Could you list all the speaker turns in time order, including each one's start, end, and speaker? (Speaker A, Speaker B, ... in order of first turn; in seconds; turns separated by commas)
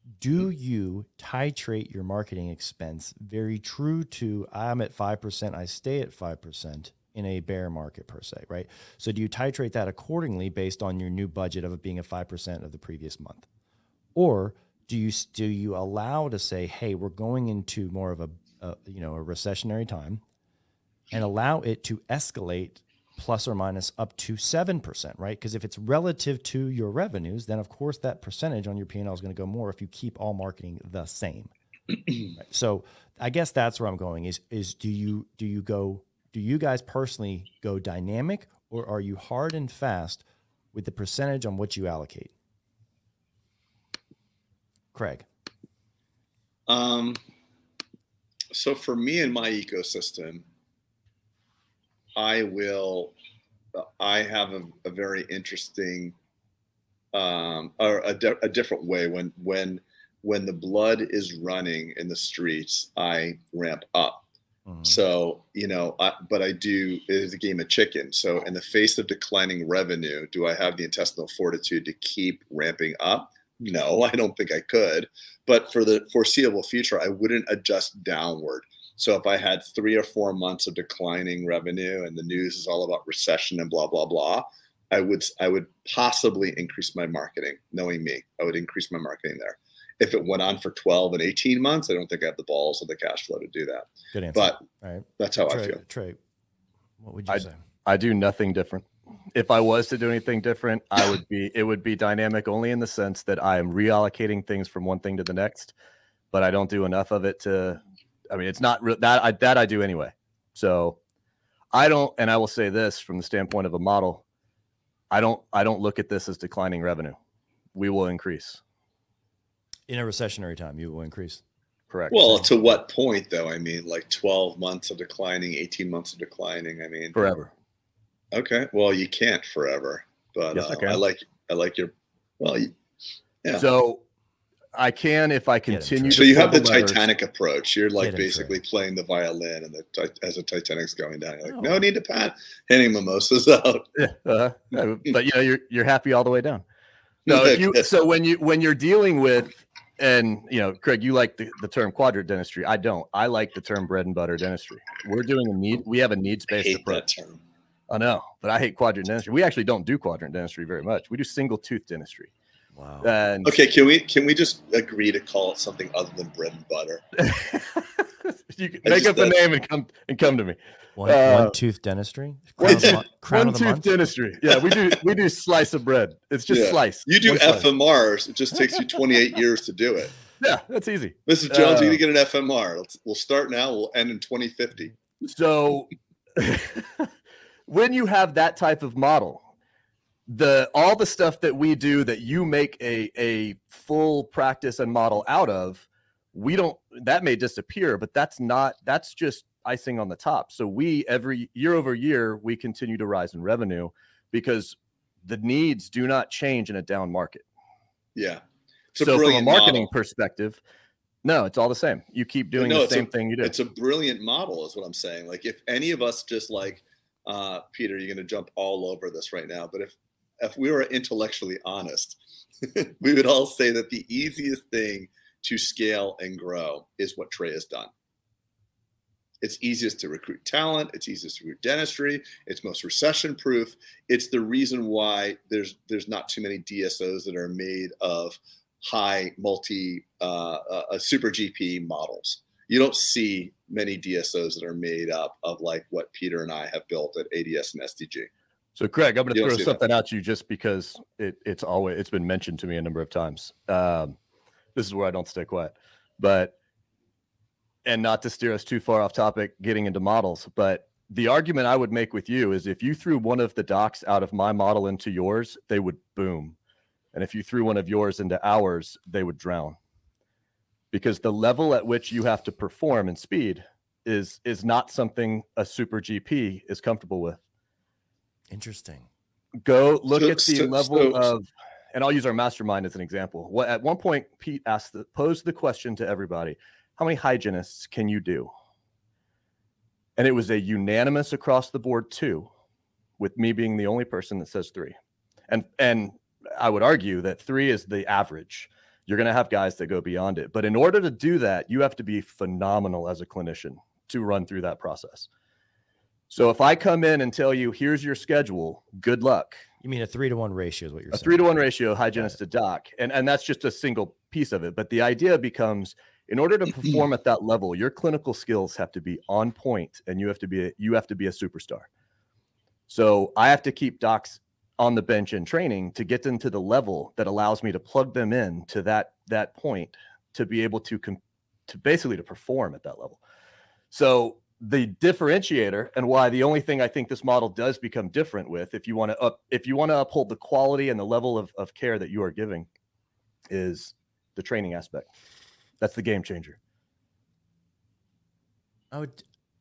Speaker A: 0.2-13.5, Speaker A: 14.1-20.2, Speaker A: 21.1-31.5, Speaker A: 32.3-42.3, Speaker A: 44.9-45.2, Speaker B: 46.7-47.2, Speaker B: 48.5-50.4, Speaker B: 52.1-53.1, Speaker B: 53.7-56.1, Speaker B: 57.1-64.2, Speaker A: 64.7-65.0, Speaker B: 64.8-94.6, Speaker A: 94.1-96.2, Speaker B: 95.2-95.8, Speaker A: 97.0-97.6, Speaker C: 97.3-105.7, Speaker C: 106.3-111.0, Speaker C: 111.7-114.2, Speaker C: 115.1-117.2, Speaker C: 117.7-118.6, Speaker A: 119.9-121.4, Speaker C: 121.9-122.2, Speaker B: 122.1-127.2, Speaker A: 122.1-122.7, Speaker C: 127.1-127.5, Speaker B: 128.3-132.7, Speaker C: 130.5-131.0, Speaker C: 133.6-134.0, Speaker C: 134.7-137.1, Speaker A: 135.7-136.3, Speaker B: 136.1-143.9, Speaker A: 138.0-138.6, Speaker A: 141.4-141.8, Speaker C: 144.0-146.6, Speaker B: 147.2-147.9, Speaker C: 147.2-157.0, Speaker B: 156.6-157.4, Speaker C: 157.9-162.3, Speaker A: 162.8-163.1, Speaker C: 163.0-163.6, Speaker B: 163.4-167.0, Speaker C: 167.2-171.6, Speaker B: 168.8-169.4, Speaker A: 171.0-174.0, Speaker C: 172.6-177.6, Speaker B: 172.6-173.0, Speaker B: 174.5-175.0, Speaker B: 176.5-180.1, Speaker A: 177.3-177.6, Speaker C: 180.4-182.0, Speaker B: 181.3-184.9, Speaker C: 185.2-187.1, Speaker C: 187.7-189.4, Speaker C: 190.3-207.4, Speaker B: 208.1-209.9, Speaker C: 209.0-210.6, Speaker C: 211.2-213.5, Speaker B: 212.6-227.9, Speaker B: 229.4-248.3, Speaker C: 248.8-254.2, Speaker B: 249.3-249.8, Speaker C: 254.8-256.5, Speaker C: 257.8-266.6, Speaker C: 267.1-269.8, Speaker C: 270.9-277.4, Speaker A: 278.5-279.1, Speaker C: 279.6-288.5, Speaker B: 280.1-281.3, Speaker C: 290.2-292.5, Speaker C: 293.2-294.9, Speaker C: 295.5-305.3, Speaker C: 306.3-309.6, Speaker A: 309.8-311.5, Speaker C: 311.1-321.9, Speaker C: 322.9-333.2, Speaker C: 333.9-342.7, Speaker C: 343.5-345.1, Speaker C: 345.8-346.6, Speaker A: 348.9-349.2